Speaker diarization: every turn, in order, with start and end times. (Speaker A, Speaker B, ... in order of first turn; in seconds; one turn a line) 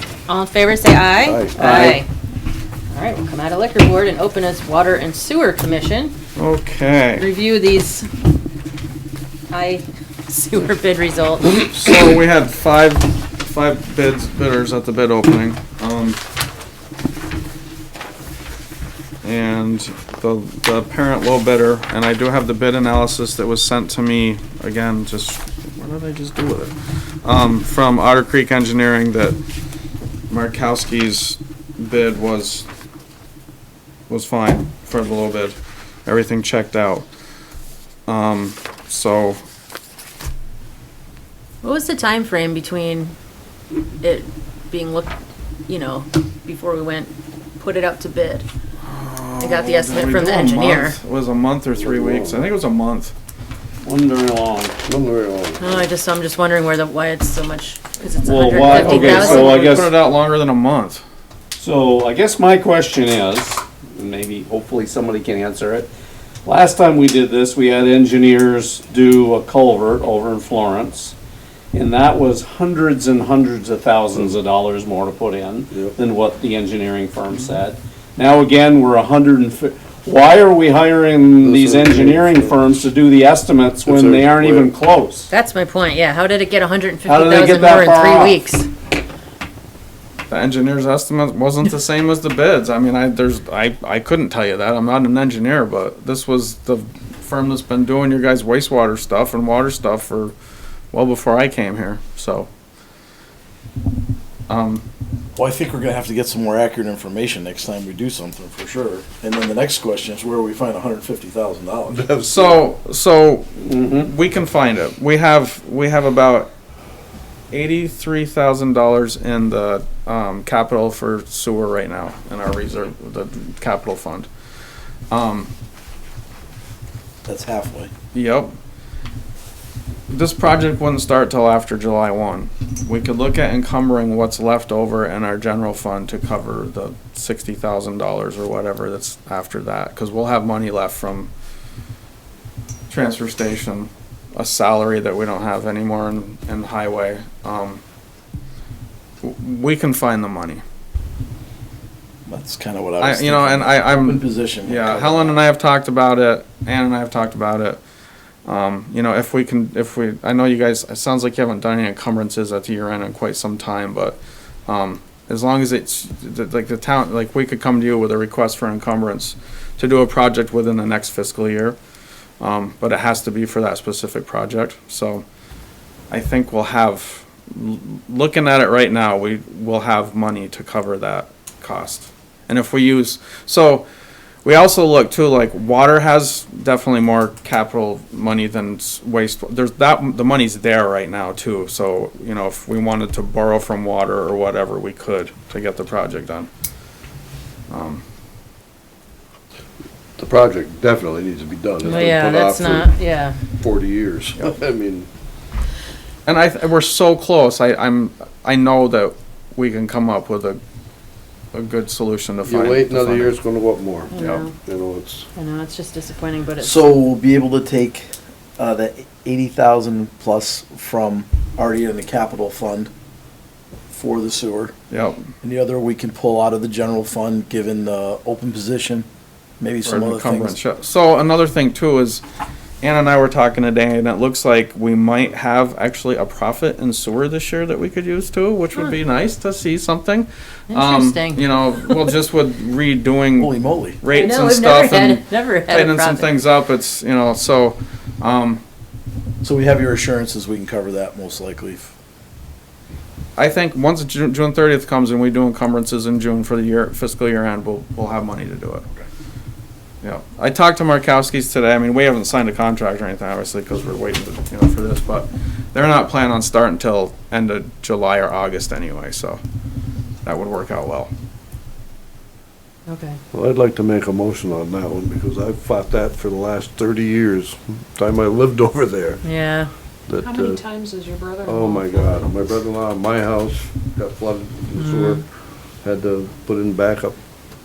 Speaker A: 0.3-2.1
Speaker B: 1.2-1.6
Speaker C: 1.6-2.0
Speaker A: 2.9-6.1
Speaker D: 6.4-7.2
Speaker A: 7.2-8.1
Speaker A: 9.5-11.6
Speaker D: 11.6-16.2
Speaker D: 19.2-29.4
Speaker D: 30.3-32.7
Speaker D: 34.1-37.1
Speaker D: 38.1-39.4
Speaker A: 41.6-43.1
Speaker A: 44.0-45.1
Speaker A: 45.7-48.5
Speaker D: 48.8-53.1
Speaker A: 49.4-51.0
Speaker B: 51.7-52.4
Speaker C: 53.8-54.8
Speaker B: 54.8-55.8
Speaker A: 55.6-59.7
Speaker C: 58.2-60.0
Speaker D: 58.5-61.0
Speaker C: 61.5-65.9
Speaker C: 66.4-71.1
Speaker C: 71.7-85.3
Speaker B: 75.7-76.0
Speaker B: 81.4-82.9
Speaker B: 83.8-84.7
Speaker A: 85.3-88.7
Speaker C: 87.0-88.4
Speaker D: 90.3-100.3
Speaker D: 100.9-102.5
Speaker D: 104.5-104.8
Speaker E: 105.3-112.5
Speaker D: 112.2-116.5
Speaker C: 113.7-114.1
Speaker D: 117.5-124.3
Speaker D: 125.1-125.5
Speaker E: 127.2-127.9
Speaker D: 128.1-128.5
Speaker D: 130.1-141.3
Speaker D: 142.9-147.8
Speaker D: 149.2-150.6
Speaker E: 152.2-155.4
Speaker D: 153.0-157.8
Speaker D: 158.4-171.8
Speaker D: 172.4-175.2
Speaker D: 176.1-183.8
Speaker D: 184.4-196.5
Speaker D: 197.7-198.0
Speaker B: 200.2-202.9
Speaker A: 201.8-203.4
Speaker B: 203.5-205.1
Speaker D: 206.2-210.6
Speaker D: 211.5-213.3
Speaker B: 212.4-215.3
Speaker A: 214.1-214.5
Speaker D: 214.1-214.4
Speaker A: 215.3-216.9
Speaker E: 216.6-222.9
Speaker E: 223.9-224.7
Speaker D: 224.9-225.3
Speaker E: 225.4-229.1
Speaker E: 229.6-230.6
Speaker D: 229.8-232.2
Speaker D: 232.8-248.6
Speaker A: 240.7-242.0
Speaker E: 243.4-244.0
Speaker A: 244.1-246.3
Speaker E: 249.4-251.9
Speaker D: 253.4-258.9
Speaker D: 260.0-269.4
Speaker D: 270.2-271.1
Speaker A: 272.9-273.2
Speaker B: 273.3-279.2
Speaker A: 279.2-279.7
Speaker B: 280.1-280.6
Speaker F: 280.2-282.4
Speaker B: 281.4-285.2
Speaker A: 284.8-285.2
Speaker B: 285.8-287.2